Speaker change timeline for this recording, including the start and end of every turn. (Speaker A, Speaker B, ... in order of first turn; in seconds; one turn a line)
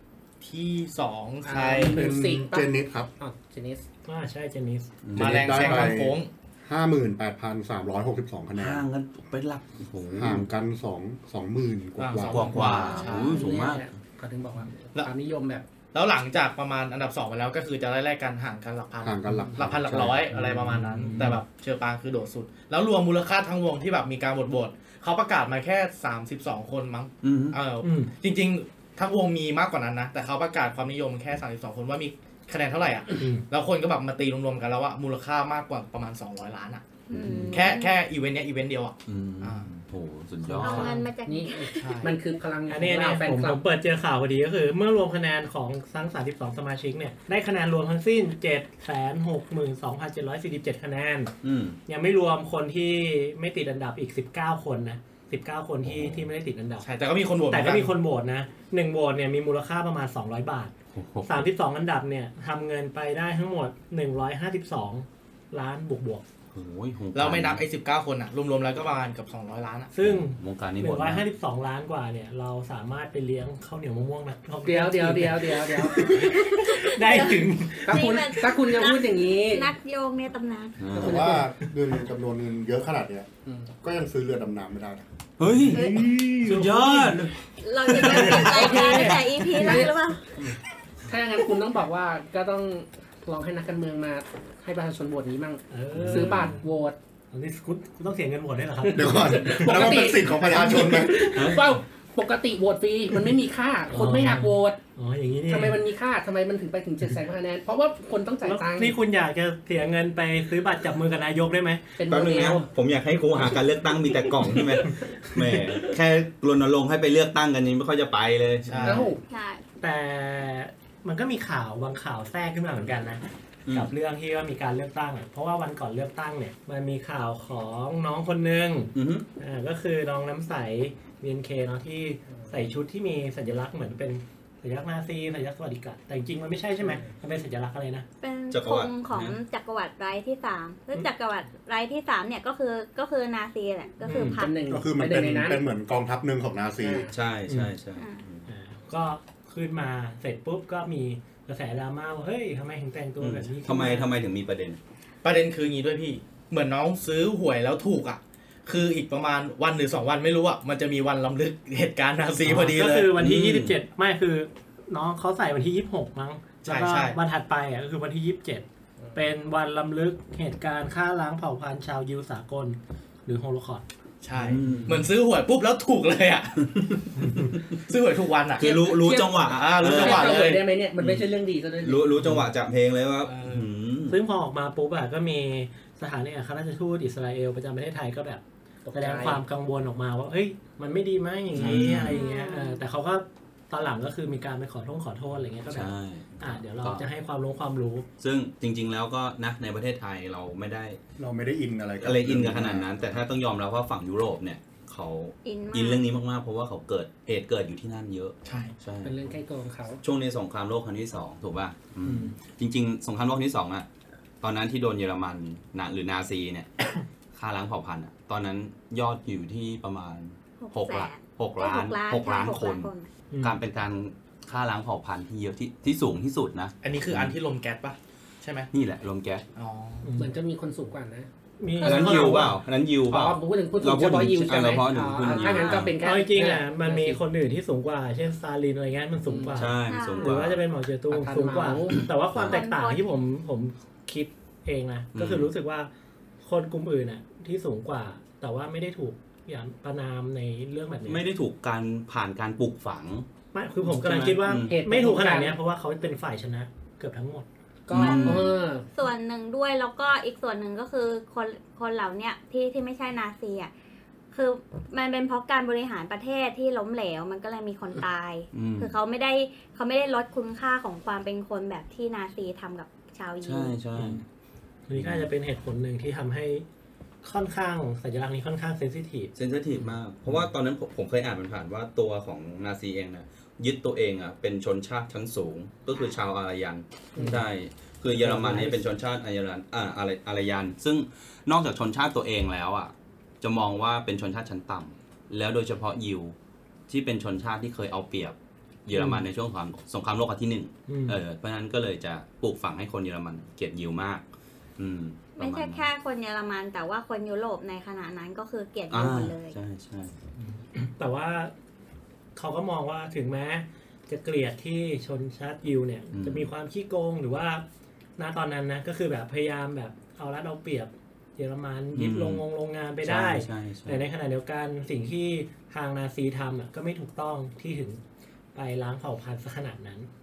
Speaker A: 0.4-2.0
Speaker B: 1.4-3.9
Speaker C: 1.8-3.1
Speaker D: 4.0-5.0
Speaker E: 5.0-5.9
Speaker C: 5.1-8.8
Speaker A: 5.2-6.3
Speaker E: 8.6-10.4
Speaker C: 10.1-12.8
Speaker A: 12.0-13.4
Speaker E: 12.2-13.9
Speaker B: 12.8-15.7
Speaker A: 15.9-36.9
Speaker C: 19.0-20.3
Speaker D: 20.3-21.4
Speaker E: 27.2-27.6
Speaker D: 27.8-28.1
Speaker D: 33.2-33.4
Speaker F: 37.1-38.0
Speaker E: 37.1-37.7
Speaker A: 37.5-39.7
Speaker E: 39.1-41.0
Speaker D: 40.4-40.9
Speaker F: 40.6-42.1
Speaker B: 41.2-43.6
Speaker A: 41.8-42.1
Speaker D: 42.7-51.3
Speaker E: 51.4-51.8
Speaker D: 51.9-56.9
Speaker E: 55.8-56.3
Speaker A: 56.8-57.9
Speaker D: 57.5-66.2
Speaker E: 60.9-61.4
Speaker E: 66.5-67.6
Speaker A: 67.1-69.9
Speaker D: 69.9-78.2
Speaker E: 70.0-71.2
Speaker B: 74.6-76.4
Speaker F: 76.4-80.9
Speaker B: 77.8-79.7
Speaker E: 80.8-81.3
Speaker B: 80.9-81.5
Speaker C: 81.0-83.3
Speaker B: 83.5-83.7
Speaker C: 83.8-85.0
Speaker E: 85.4-87.3
Speaker F: 85.7-86.1
Speaker D: 85.7-87.3
Speaker F: 87.6-90.3
Speaker E: 87.9-89.1
Speaker B: 88.0-90.0
Speaker B: 91.0-97.0
Speaker D: 95.7-96.6
Speaker E: 96.0-96.6
Speaker D: 97.3-99.6
Speaker B: 98.8-104.8
Speaker C: 98.9-101.3
Speaker E: 101.3-101.8
Speaker D: 103.9-105.8
Speaker B: 105.5-109.0
Speaker D: 108.4-112.0
Speaker B: 112.0-112.7
Speaker E: 112.1-119.1
Speaker A: 118.7-119.1
Speaker B: 118.8-119.2
Speaker F: 119.3-119.6
Speaker D: 119.8-138.1
Speaker E: 123.7-123.9
Speaker E: 128.9-129.2
Speaker B: 132.3-132.6
Speaker B: 136.8-137.1
Speaker F: 138.2-144.7
Speaker E: 138.5-139.4
Speaker D: 144.0-144.4
Speaker B: 144.1-145.6
Speaker C: 144.7-147.1
Speaker B: 146.8-147.1
Speaker E: 147.1-148.5
Speaker D: 147.5-147.7
Speaker F: 147.9-148.2
Speaker D: 148.5-154.1
Speaker E: 153.2-154.8
Speaker A: 155.2-163.1
Speaker D: 162.4-173.8
Speaker E: 163.2-163.8
Speaker A: 166.6-167.2
Speaker A: 174.2-177.1
Speaker E: 174.3-175.1
Speaker D: 174.7-174.9
Speaker D: 177.2-177.5
Speaker A: 177.8-180.6
Speaker E: 178.6-181.3
Speaker B: 179.8-182.2
Speaker E: 181.8-184.2
Speaker A: 183.2-183.7
Speaker D: 184.1-188.4
Speaker B: 188.8-189.4
Speaker D: 188.9-198.1
Speaker E: 191.5-192.2
Speaker F: 191.9-192.8
Speaker E: 195.7-197.1
Speaker E: 198.2-201.0
Speaker C: 201.2-203.1
Speaker E: 202.0-209.4
Speaker F: 205.4-206.0
Speaker A: 208.4-208.7
Speaker B: 209.0-210.0
Speaker E: 210.0-213.9
Speaker D: 212.0-212.3
Speaker E: 214.4-222.9
Speaker F: 220.6-223.1
Speaker D: 223.3-223.6
Speaker E: 223.4-227.4
Speaker A: 226.8-228.7
Speaker E: 228.7-229.4
Speaker A: 229.6-230.1
Speaker D: 230.0-230.3
Speaker B: 230.2-231.3
Speaker D: 231.6-232.6
Speaker E: 231.8-235.9
Speaker B: 231.8-232.5
Speaker B: 233.1-237.2
Speaker F: 235.3-235.9
Speaker D: 236.0-245.9
Speaker B: 239.2-239.7
Speaker E: 239.5-240.6
Speaker F: 239.8-240.3
Speaker B: 241.1-242.0
Speaker E: 241.9-242.6
Speaker F: 242.4-243.0
Speaker E: 245.1-245.5
Speaker D: 246.4-251.2
Speaker E: 251.1-253.2
Speaker D: 253.5-257.5
Speaker E: 253.8-254.8
Speaker B: 254.6-255.6
Speaker B: 257.9-258.9
Speaker E: 257.9-258.5
Speaker F: 258.0-263.7
Speaker F: 264.3-273.8
Speaker E: 268.5-268.9
Speaker E: 273.4-274.2
Speaker D: 274.0-274.2
Speaker D: 274.9-276.6
Speaker E: 274.9-275.3
Speaker D: 277.2-279.3
Speaker E: 279.3-296.3
Speaker B: 287.1-287.4
Speaker D: 288.1-288.8
Speaker E: 296.9-304.2
Speaker D: 298.9-299.2
Speaker D: 300.9-301.2
Speaker E: 304.8-305.9
Speaker F: 305.4-309.6
Speaker E: 308.9-310.1
Speaker D: 310.4-311.5
Speaker D: 312.4-317.6
Speaker E: 316.1-316.5
Speaker D: 318.2-328.0
Speaker E: 321.9-322.4
Speaker E: 323.0-324.0
Speaker D: 328.5-330.1